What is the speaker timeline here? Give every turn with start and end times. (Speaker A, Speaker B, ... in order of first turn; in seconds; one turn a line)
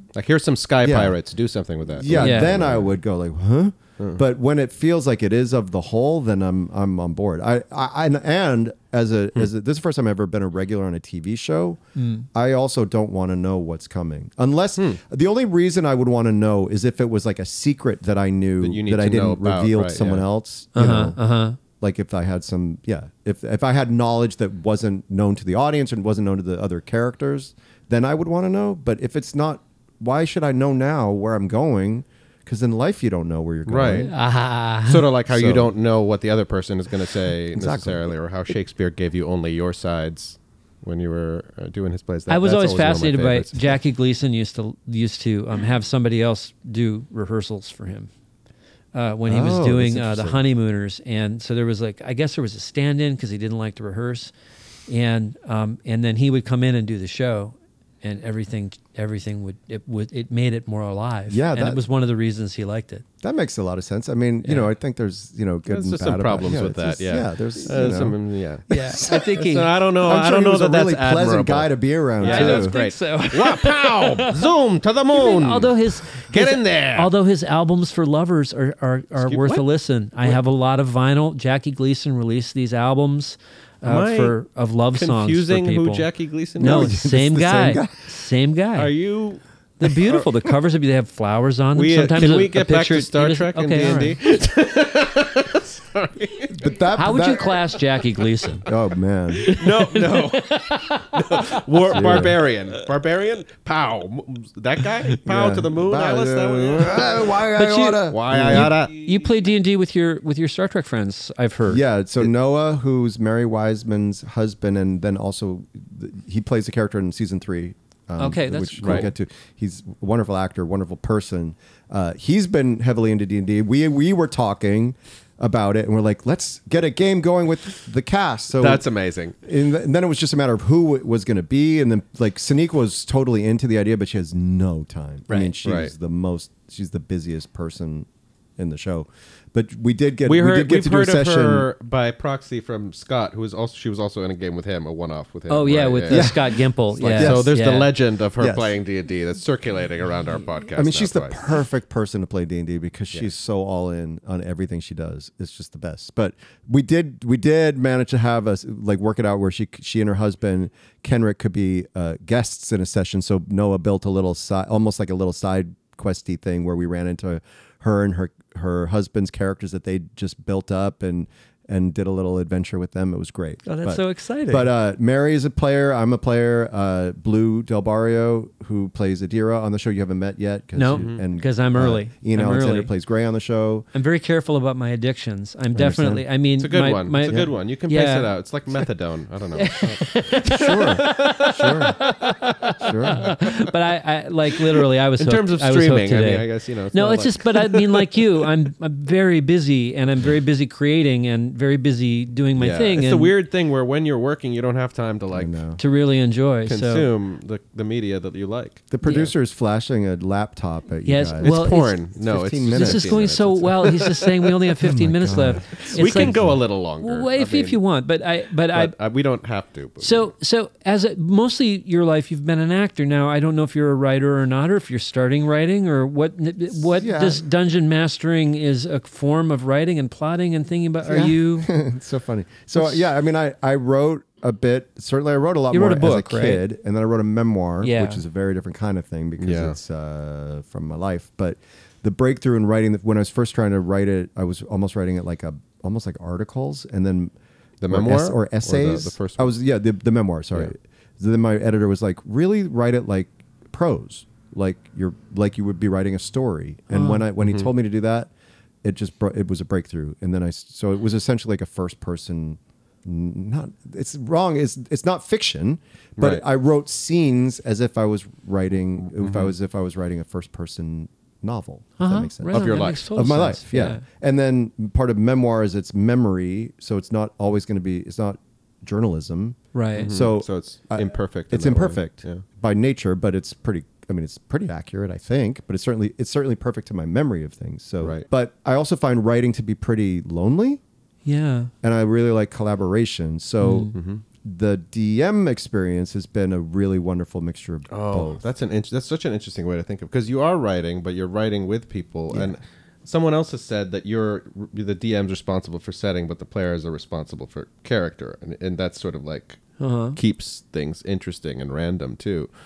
Speaker A: 0.1-2.9
Speaker B: 0.8-1.2
Speaker B: 1.9-11.8
Speaker C: 2.1-2.5
Speaker C: 12.0-12.3
Speaker B: 12.3-21.2
Speaker A: 18.6-20.2
Speaker C: 20.8-21.6
Speaker B: 21.8-34.1
Speaker A: 33.7-34.1
Speaker C: 34.0-35.1
Speaker A: 34.8-43.8
Speaker B: 35.3-35.7
Speaker B: 37.5-38.1
Speaker C: 42.3-48.1
Speaker C: 48.9-54.3
Speaker B: 49.3-50.4
Speaker C: 54.9-63.0
Speaker B: 61.3-61.8
Speaker B: 63.2-69.4
Speaker C: 64.4-64.7
Speaker A: 65.7-71.7
Speaker C: 68.7-69.7
Speaker B: 70.0-72.8
Speaker C: 72.2-74.5
Speaker A: 72.2-77.1
Speaker C: 75.1-88.9
Speaker A: 79.2-79.7
Speaker A: 83.8-84.3
Speaker A: 84.9-87.0
Speaker B: 86.6-88.0
Speaker A: 88.8-90.3
Speaker C: 89.8-94.2
Speaker A: 91.8-96.8
Speaker B: 96.5-97.6
Speaker C: 96.9-98.7
Speaker B: 98.7-99.5
Speaker C: 99.3-102.3
Speaker A: 99.5-107.5
Speaker B: 101.9-102.4
Speaker B: 105.2-108.8
Speaker C: 107.6-111.8
Speaker A: 108.0-109.1
Speaker B: 111.7-128.8
Speaker C: 118.2-119.1
Speaker A: 118.8-119.1
Speaker A: 128.6-129.3
Speaker B: 129.4-141.7
Speaker A: 135.3-135.9
Speaker A: 140.2-146.4
Speaker C: 145.5-147.9
Speaker B: 146.1-147.5
Speaker A: 147.1-151.4
Speaker B: 148.4-148.8
Speaker B: 150.8-183.9
Speaker C: 173.7-174.7
Speaker C: 180.8-182.9
Speaker A: 180.9-181.2
Speaker C: 183.9-188.3
Speaker B: 185.7-186.3
Speaker A: 186.6-193.5
Speaker C: 189.6-203.3
Speaker B: 190.5-192.0
Speaker B: 192.8-193.3
Speaker A: 194.8-198.5
Speaker A: 202.6-205.6
Speaker B: 205.3-205.8
Speaker C: 205.8-207.1
Speaker A: 206.7-208.8
Speaker B: 208.9-211.6
Speaker C: 209.0-209.3
Speaker C: 211.1-212.0
Speaker A: 211.4-214.8
Speaker B: 212.2-213.7
Speaker C: 212.7-216.5
Speaker B: 214.8-216.6
Speaker A: 215.7-217.8
Speaker C: 217.0-218.9
Speaker A: 218.7-220.3
Speaker C: 220.0-231.7
Speaker B: 226.9-227.4
Speaker B: 231.0-247.3
Speaker C: 235.7-236.6
Speaker C: 237.8-238.2
Speaker A: 239.4-239.8
Speaker A: 247.8-249.6
Speaker B: 247.9-258.3
Speaker C: 256.9-257.2
Speaker A: 257.4-257.7
Speaker B: 258.8-290.8
Speaker A: 266.2-266.4
Speaker A: 269.2-269.5
Speaker C: 272.0-274.0
Speaker A: 272.5-273.1
Speaker C: 279.7-280.1
Speaker A: 280.0-282.4
Speaker C: 291.2-291.7
Speaker B: 291.8-298.4
Speaker C: 293.6-293.9
Speaker A: 293.9-294.2
Speaker A: 297.9-309.6
Speaker B: 302.3-302.6
Speaker C: 309.8-310.2
Speaker A: 310.2-312.5